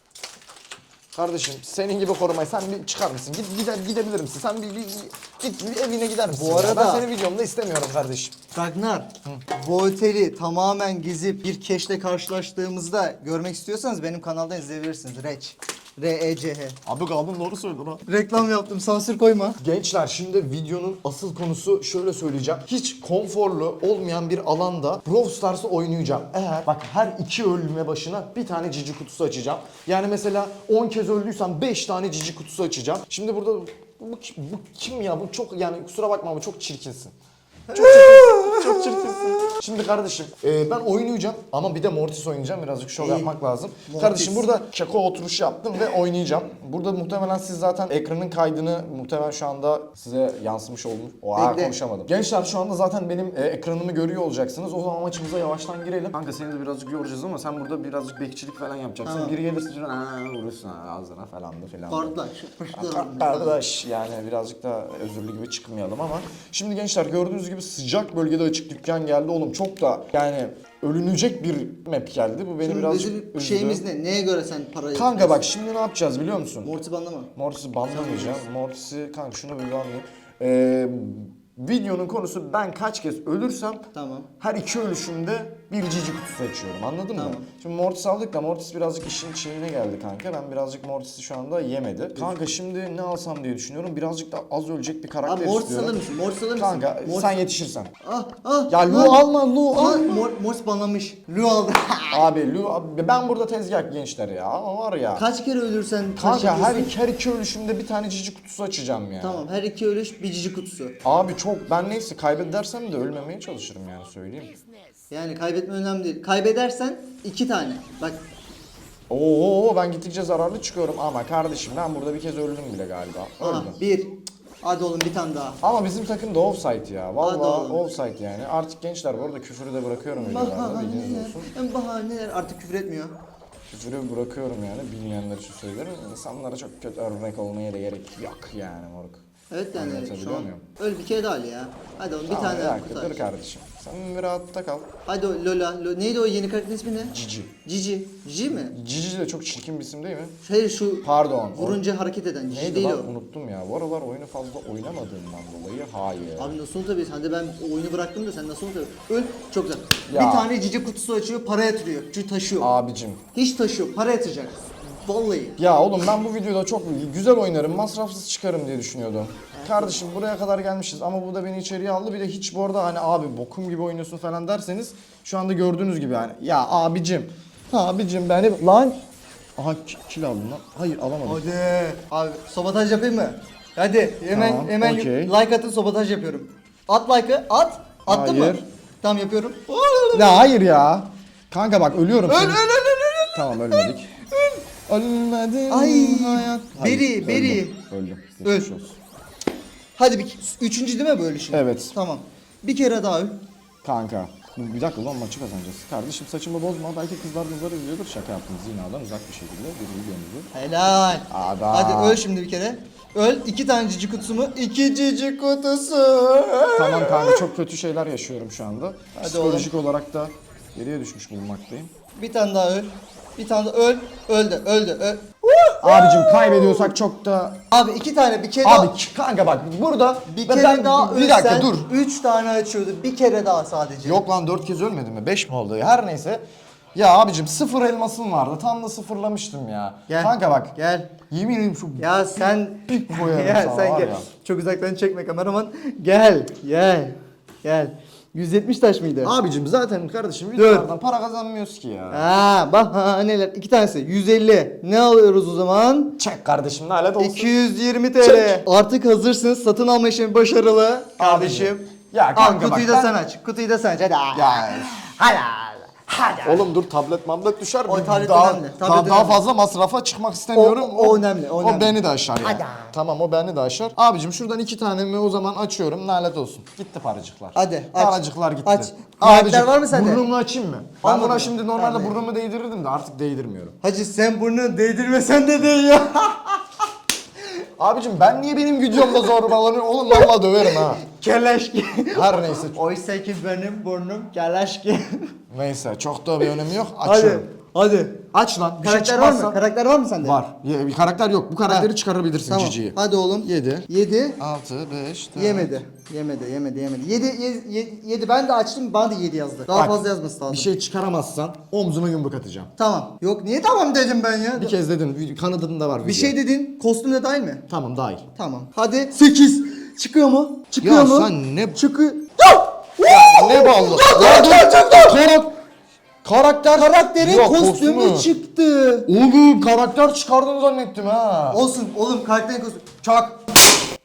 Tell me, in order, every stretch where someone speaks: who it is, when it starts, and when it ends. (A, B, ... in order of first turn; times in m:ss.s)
0:01.1-0:08.3 A
0:06.3-0:07.0 B
0:08.5-0:16.8 B
0:16.8-0:18.1 A
0:18.1-0:19.6 B
0:19.6-0:37.1 A
0:37.7-0:39.5 B
0:37.7-1:02.2 A
0:43.0-0:43.3 B
0:43.9-0:44.5 B
0:51.4-0:51.8 B
0:59.0-0:59.4 B
1:01.9-1:03.6 B
1:02.7-1:13.8 A
1:12.6-1:15.5 B
1:14.9-1:16.7 A
1:16.6-1:17.3 B
1:17.4-1:23.8 A
1:17.9-1:18.4 B
1:23.9-1:24.3 B
1:24.4-1:36.0 A
1:27.2-1:27.5 B
1:35.2-1:37.3 B
1:36.6-1:37.9 A
1:38.0-1:42.3 B
1:38.7-1:40.2 A
1:42.1-1:45.3 A
1:45.2-1:46.9 B
1:46.2-1:49.4 A
1:49.2-1:51.0 B
1:51.0-1:54.6 A
1:55.1-1:58.2 B
1:59.1-2:03.8 A
2:03.4-2:05.6 B
2:05.6-2:11.5 A
2:07.2-2:07.8 B
2:10.1-2:13.1 B
2:13.7-2:19.2 A
2:19.5-2:23.3 B
2:19.7-2:20.6 A
2:22.3-2:24.9 A
2:25.1-2:27.1 B
2:27.0-2:27.6 A
2:27.6-2:28.7 B
2:28.5-2:30.4 A
2:30.4-2:33.1 B
2:31.0-2:31.8 A
2:32.5-2:36.6 A
2:36.4-2:42.7 B
2:40.1-2:40.5 A
2:42.6-2:43.2 A
2:43.3-2:45.6 B
2:45.6-2:59.0 A
2:49.6-2:50.0 B
2:59.6-3:01.4 A
3:01.2-3:10.3 B
3:04.3-3:05.3 A
3:08.1-3:08.6 A
3:10.1-3:12.7 A
3:12.3-3:14.6 B
3:13.3-3:14.2 A
3:14.9-3:19.0 A
3:15.7-3:17.8 B
3:18.4-3:18.7 B
3:20.0-3:23.4 B
3:21.5-3:21.9 A
3:23.8-3:30.5 A
3:30.5-3:37.4 B
3:31.3-3:32.2 A
3:36.8-3:41.9 A
3:39.2-3:39.7 B
3:42.1-3:46.9 B
3:45.8-3:47.6 A
3:47.7-3:48.9 B
3:48.6-3:51.9 A
3:50.3-3:54.2 B
3:54.0-3:56.4 A
3:57.0-4:00.7 A
4:00.1-4:01.2 B
4:01.3-4:04.3 A
4:02.0-4:09.3 B
4:09.2-4:12.3 A
4:10.6-4:10.9 B
4:12.1-4:16.2 B
4:16.2-4:17.5 A
4:17.2-4:26.7 B
4:21.2-4:23.2 A
4:24.3-4:24.9 A
4:26.4-4:43.8 A
4:27.9-4:29.4 B
4:30.5-4:32.9 B
4:37.6-4:40.2 B
4:41.0-4:42.2 B
4:43.8-4:46.8 B
4:47.8-4:51.0 A
4:48.9-4:49.4 B
4:50.1-4:55.4 B
4:52.1-4:52.8 A
4:55.5-4:57.5 A
4:56.4-4:58.3 B
4:58.3-4:59.6 A
4:58.8-5:00.4 B
5:00.2-5:05.8 A
5:01.7-5:01.9 B
5:02.5-5:04.4 B
5:05.4-5:10.7 B
5:09.7-5:12.7 A
5:12.8-5:14.7 B
5:14.6-5:16.4 A
5:16.0-5:17.7 B
5:17.7-5:18.2 A
5:18.4-5:25.2 B
5:20.8-5:21.8 A
5:23.0-5:25.6 A
5:26.2-5:28.3 A
5:26.7-5:29.1 B
5:29.1-5:31.6 A
5:31.5-5:33.4 B